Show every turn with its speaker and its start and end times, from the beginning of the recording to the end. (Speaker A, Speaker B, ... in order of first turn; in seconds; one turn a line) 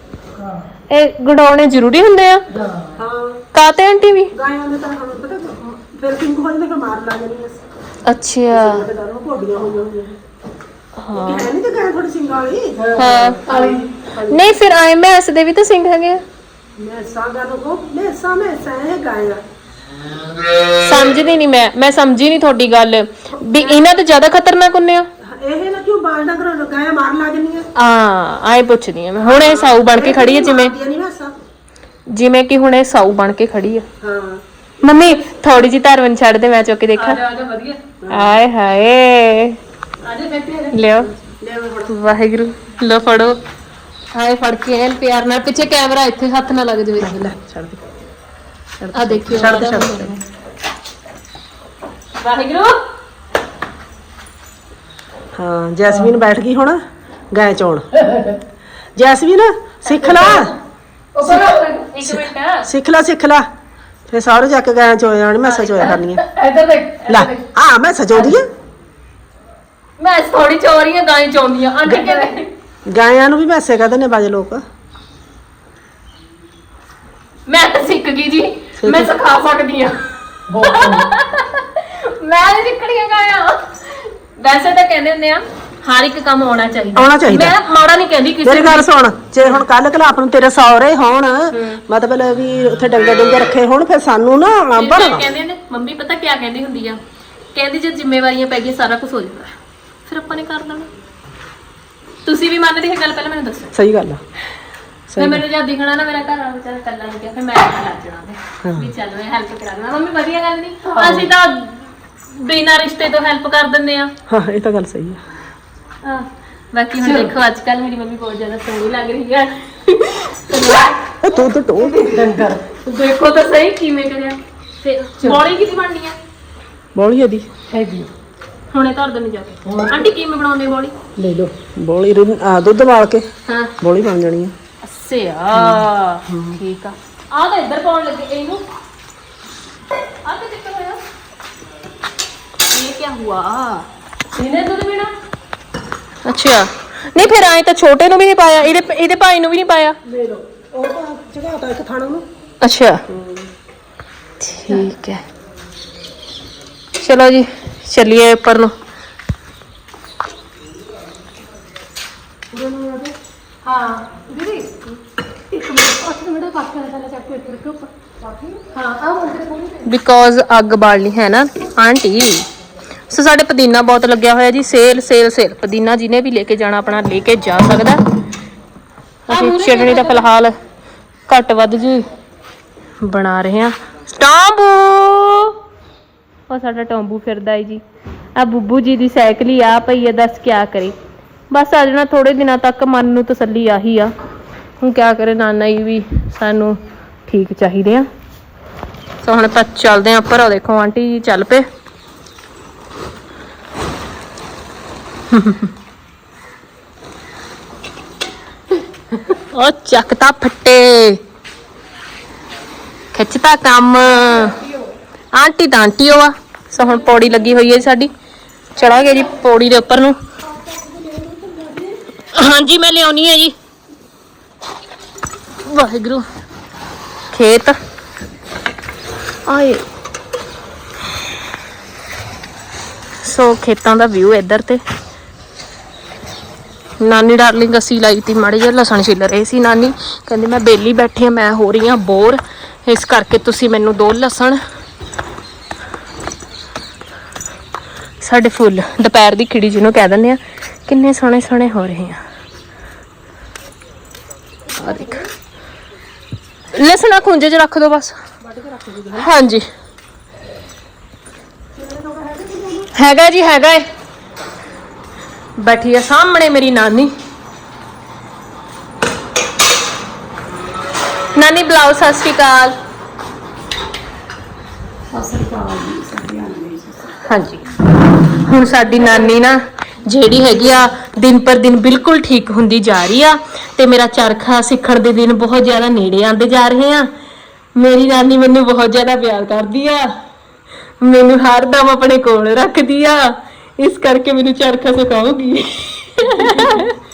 Speaker A: 0.4-0.7
Speaker B: 0.9-2.4
Speaker A: 2.5-3.0
Speaker C: 3.0-3.4
Speaker B: 3.5-4.3
Speaker C: 4.3-7.6
Speaker B: 8.1-8.8
Speaker C: 8.5-10.2
Speaker B: 11.0-11.5
Speaker C: 11.1-13.9
Speaker A: 12.8-14.6
Speaker B: 13.0-13.4
Speaker B: 14.3-16.2
Speaker C: 16.8-19.4
Speaker B: 20.8-25.1
Speaker C: 23.4-23.8
Speaker C: 25.2-27.6
Speaker B: 27.8-30.7
Speaker C: 29.3-31.3
Speaker B: 32.1-33.9
Speaker C: 34.0-34.4
Speaker B: 34.8-37.2
Speaker A: 37.0-37.8
Speaker C: 38.0-38.4
Speaker B: 38.1-39.6
Speaker A: 40.0-40.8
Speaker B: 40.7-41.1
Speaker C: 41.3-41.9
Speaker B: 41.9-43.4
Speaker B: 44.1-47.2
Speaker C: 47.0-47.8
Speaker C: 48.8-50.1
Speaker B: 48.9-50.2
Speaker B: 52.2-52.8
Speaker C: 55.4-56.8
Speaker C: 57.3-57.9
Speaker A: 58.0-58.4
Speaker C: 59.0-60.5
Speaker B: 59.9-60.2
Speaker A: 60.1-60.5
Speaker A: 61.1-61.9
Speaker B: 61.2-62.7
Speaker C: 62.1-63.5
Speaker C: 64.1-66.2
Speaker A: 65.5-67.4
Speaker C: 67.1-68.5
Speaker B: 70.0-72.5
Speaker A: 71.9-72.3
Speaker C: 72.9-74.6
Speaker B: 77.5-80.0
Speaker C: 78.8-79.1
Speaker A: 80.5-81.1
Speaker B: 80.5-88.9
Speaker C: 87.0-87.5
Speaker C: 88.4-95.2
Speaker B: 91.5-91.8
Speaker B: 94.8-97.0
Speaker B: 97.5-99.5
Speaker B: 100.1-100.9
Speaker B: 102.2-103.7
Speaker C: 103.7-104.2
Speaker C: 105.1-105.4
Speaker B: 105.2-114.1
Speaker C: 108.6-108.9
Speaker A: 110.8-111.3
Speaker C: 114.3-115.2
Speaker B: 116.0-121.2
Speaker A: 117.0-117.3
Speaker C: 121.2-122.5
Speaker A: 121.8-122.7
Speaker B: 122.8-126.2
Speaker C: 127.0-127.5
Speaker A: 127.7-128.1
Speaker B: 128.7-130.9
Speaker A: 129.7-130.1
Speaker C: 131.2-133.3
Speaker C: 133.8-134.5
Speaker B: 134.8-138.6
Speaker C: 135.5-136.6
Speaker B: 140.2-141.0
Speaker B: 142.7-143.9
Speaker A: 144.3-145.1
Speaker B: 146.2-150.0
Speaker C: 150.1-152.2
Speaker B: 152.6-153.0
Speaker C: 153.1-153.5
Speaker B: 154.4-155.2
Speaker B: 157.0-158.7
Speaker C: 162.5-163.2
Speaker A: 163.6-164.8
Speaker A: 165.5-169.9
Speaker B: 169.8-172.5
Speaker B: 173.1-178.0
Speaker A: 179.3-180.3
Speaker B: 179.3-180.5
Speaker B: 181.3-182.1
Speaker B: 183.0-185.6
Speaker B: 186.5-187.8
Speaker B: 188.4-190.9
Speaker B: 191.5-194.1
Speaker B: 194.8-198.1
Speaker B: 199.2-201.7
Speaker B: 205.3-205.7
Speaker B: 209.2-211.2
Speaker B: 213.1-214.6
Speaker A: 214.1-214.9
Speaker B: 215.3-218.1
Speaker A: 216.8-217.7
Speaker B: 218.8-220.2
Speaker A: 218.8-219.3
Speaker C: 220.5-222.0
Speaker B: 222.3-223.5
Speaker B: 225.6-226.2
Speaker B: 227.3-227.8
Speaker B: 229.5-229.8
Speaker B: 233.2-234.8
Speaker B: 237.0-244.6
Speaker B: 248.2-252.2
Speaker B: 254.8-255.2
Speaker C: 254.8-255.2
Speaker B: 256.8-258.2
Speaker C: 258.4-259.3
Speaker B: 259.2-259.6
Speaker C: 261.8-262.9
Speaker B: 262.9-263.9
Speaker B: 265.6-267.1
Speaker B: 271.4-272.8
Speaker A: 275.1-277.1
Speaker B: 277.2-277.7
Speaker B: 278.4-287.1
Speaker B: 287.8-290.1
Speaker B: 291.0-297.0